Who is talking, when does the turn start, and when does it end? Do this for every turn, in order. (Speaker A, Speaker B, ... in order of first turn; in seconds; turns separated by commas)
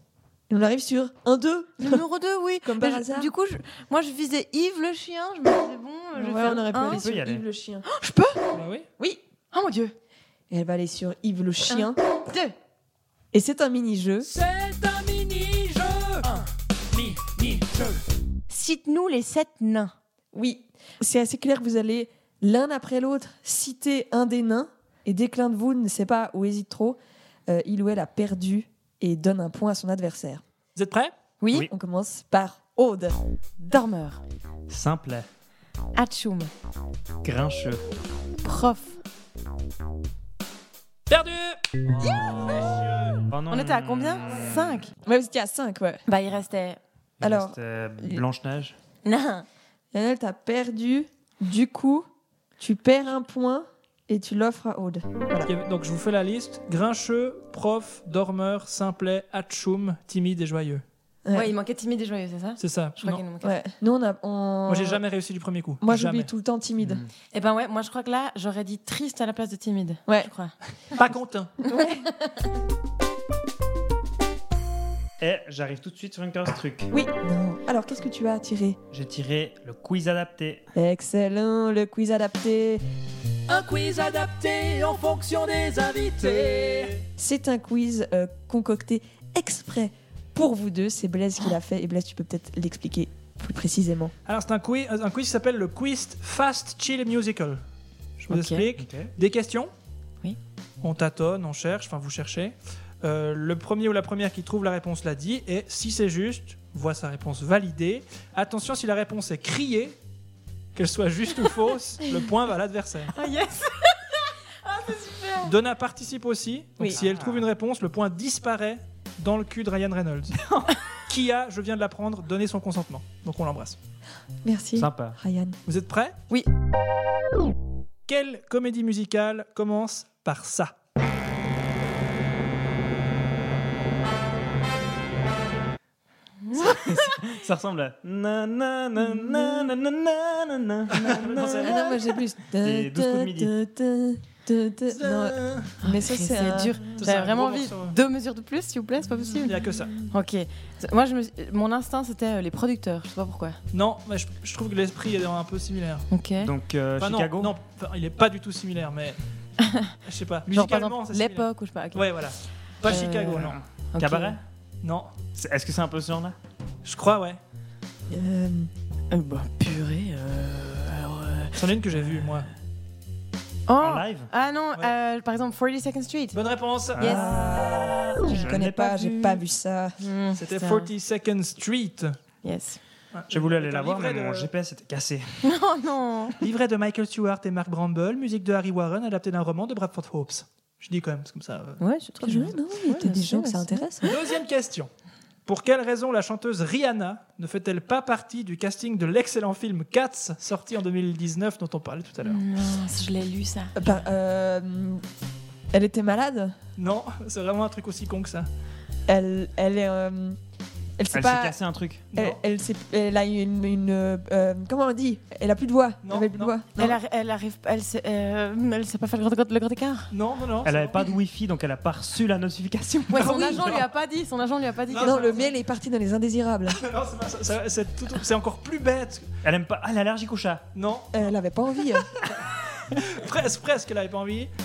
Speaker A: 0.5-2.0, Speaker B: 1.8-7.0, Speaker A: 2.6-3.3, Speaker A: 6.2-7.8, Speaker C: 6.8-7.4, Speaker B: 7.8-8.6, Speaker D: 8.5-8.9, Speaker B: 9.5-9.9, Speaker A: 10.5-12.0, Speaker B: 11.7-12.5, Speaker A: 13.3-14.3, Speaker E: 14.4-15.8, Speaker D: 14.4-17.9, Speaker E: 17.0-17.9, Speaker B: 18.5-19.9, Speaker A: 20.3-30.4, Speaker D: 30.7-31.1, Speaker B: 31.4-31.7, Speaker A: 31.6-33.2, Speaker B: 33.6-34.2, Speaker C: 34.7-35.3, Speaker B: 35.9-36.5, Speaker C: 37.2-37.8, Speaker B: 38.4-39.0, Speaker D: 41.1-43.2, Speaker C: 43.3-44.9, Speaker B: 43.5-44.9, Speaker A: 45.0-46.0, Speaker B: 46.1-46.8, Speaker C: 47.2-48.8, Speaker A: 47.2-48.2, Speaker B: 49.0-49.5, Speaker A: 49.9-52.1, Speaker A: 52.6-55.5, Speaker D: 55.4-60.8, Speaker A: 61.2-61.5, Speaker B: 61.3-63.6, Speaker D: 62.6-63.2, Speaker A: 63.4-65.0, Speaker D: 64.7-66.3, Speaker A: 65.8-67.0, Speaker C: 66.8-67.1, Speaker B: 67.3-70.5, Speaker D: 70.9-71.6, Speaker A: 71.7-72.0, Speaker B: 71.7-72.5, Speaker C: 75.2-76.9, Speaker A: 76.9-78.8, Speaker C: 78.9-80.6, Speaker A: 80.7-82.8, Speaker E: 83.5-87.0, Speaker A: 87.2-94.1, Speaker D: 94.2-97.6, Speaker D: 98.2-99.7, Speaker B: 98.3-98.6, Speaker C: 98.8-99.1, Speaker D: 100.8-110.0, Speaker D: 110.8-113.1, Speaker B: 113.1-115.5, Speaker D: 115.4-120.5, Speaker C: 116.9-117.5, Speaker C: 120.4-120.7, Speaker D: 121.0-123.8, Speaker A: 124.4-125.6, Speaker C: 124.8-125.2, Speaker D: 125.7-126.2, Speaker D: 128.1-130.8, Speaker B: 136.4-137.2, Speaker C: 136.7-141.8, Speaker D: 140.9-142.1, Speaker A: 141.6-146.8, Speaker C: 142.6-143.5, Speaker D: 144.9-145.7, Speaker B: 145.8-153.6, Speaker D: 146.9-147.9, Speaker D: 149.4-150.0, Speaker D: 153.7-156.1, Speaker B: 156.1-156.5, Speaker C: 156.4-157.5, Speaker D: 157.0-159.2, Speaker B: 159.6-159.9, Speaker D: 160.0-163.6, Speaker B: 160.5-162.3, Speaker B: 162.8-164.4, Speaker C: 163.0-164.4, Speaker D: 164.8-165.1, Speaker C: 165.3-166.3, Speaker D: 166.8-167.4, Speaker A: 168.1-168.7, Speaker B: 169.1-171.6, Speaker D: 171.6-172.5, Speaker B: 173.7-176.4, Speaker C: 173.8-174.3, Speaker D: 176.3-177.2, Speaker C: 176.9-179.4, Speaker B: 177.0-177.3, Speaker A: 177.0-180.0, Speaker B: 180.0-180.9, Speaker D: 180.4-182.2, Speaker B: 182.4-182.8, Speaker D: 183.1-184.5, Speaker C: 183.3-185.6, Speaker B: 185.4-186.4, Speaker D: 186.4-191.8, Speaker B: 191.8-194.1, Speaker A: 192.2-194.1, Speaker D: 194.0-194.9, Speaker D: 195.4-202.4, Speaker B: 202.2-204.0, Speaker A: 203.8-205.0, Speaker A: 205.7-206.6, Speaker D: 206.8-208.5, Speaker A: 209.1-210.4, Speaker A: 211.0-211.6, Speaker C: 211.1-212.0, Speaker D: 212.1-212.4, Speaker A: 212.1-217.0, Speaker D: 216.0-216.6, Speaker B: 216.8-220.1, Speaker D: 220.1-221.1, Speaker C: 220.6-223.8, Speaker B: 223.1-225.5, Speaker D: 223.2-223.8, Speaker D: 224.9-225.5, Speaker A: 225.0-226.8, Speaker D: 226.7-229.3, Speaker C: 229.4-230.7, Speaker D: 230.7-231.1, Speaker A: 231.1-232.1, Speaker D: 232.9-234.5